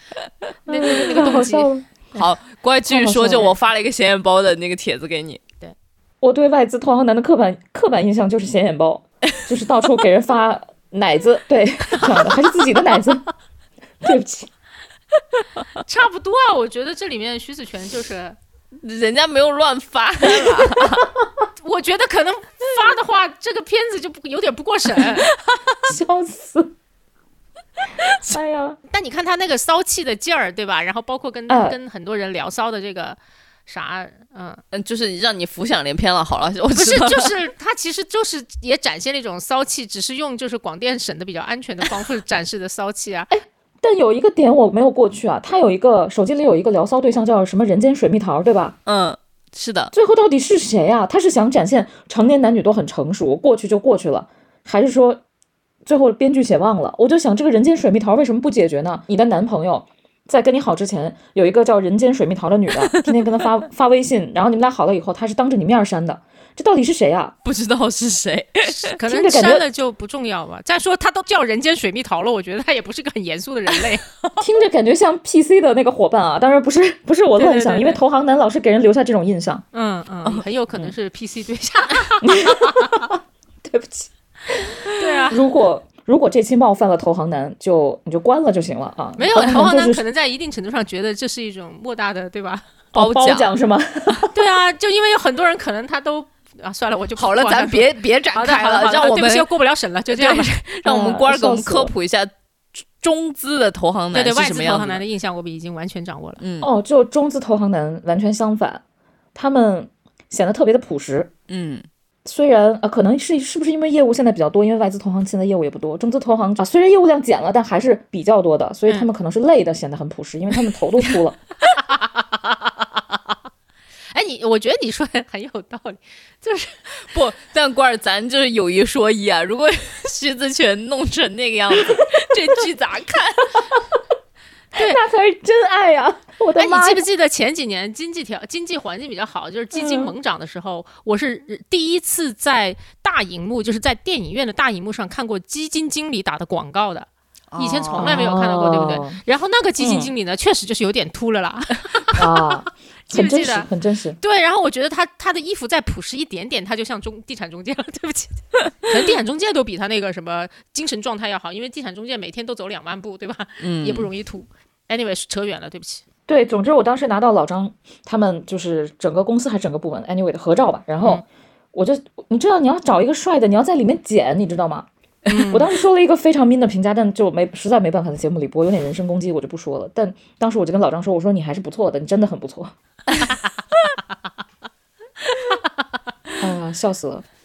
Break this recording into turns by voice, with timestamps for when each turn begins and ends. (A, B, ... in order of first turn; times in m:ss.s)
0:00.7-0:01.7 A
0:00.7-0:01.9 B
0:02.1-0:05.4 C
0:02.9-0:03.5 B
0:06.2-0:13.2 B
0:14.0-0:14.5 B
0:15.9-0:18.4 A
0:18.8-0:21.0 C
0:21.6-0:25.3 A
0:25.9-0:26.7 B
0:28.2-0:28.8 B
0:28.9-0:34.6 A
0:31.5-0:31.8 B
0:34.7-0:37.3 C
0:36.7-0:43.3 A
0:43.3-0:48.8 B
0:48.9-0:49.9 C
0:49.9-0:55.2 B
0:55.9-1:07.4 B
1:07.4-1:08.9 C
1:08.6-1:14.0 A
1:09.1-1:09.6 B
1:14.4-1:19.6 B
1:17.4-1:18.0 A
1:19.7-1:22.7 A
1:22.3-1:30.0 B
1:25.0-1:25.4 A
1:29.2-1:32.7 A
1:32.9-1:33.5 C
1:32.9-1:34.3 B
1:34.3-1:40.5 A
1:37.2-1:39.5 C
1:40.1-1:42.3 C
1:40.8-1:41.9 B
1:43.0-1:45.0 C
1:44.1-1:46.4 A
1:46.4-1:46.7 C
1:46.6-1:48.8 B
1:49.4-1:51.3 B
1:51.5-1:51.9 C
1:52.2-2:01.4 B
2:04.1-2:06.9 A
2:07.1-2:13.7 C
2:14.8-2:15.0 A
2:14.8-2:17.0 B
2:16.6-2:32.6 A
2:19.7-2:20.1 B
2:27.5-2:28.3 C
2:28.0-2:29.2 B
2:32.2-2:34.2 B
2:33.1-2:33.7 A
2:34.2-2:46.0 A
2:43.6-2:44.1 C
2:46.3-2:54.9 B
2:55.3-2:55.7 A
2:55.5-3:02.7 B
3:06.4-3:07.2 B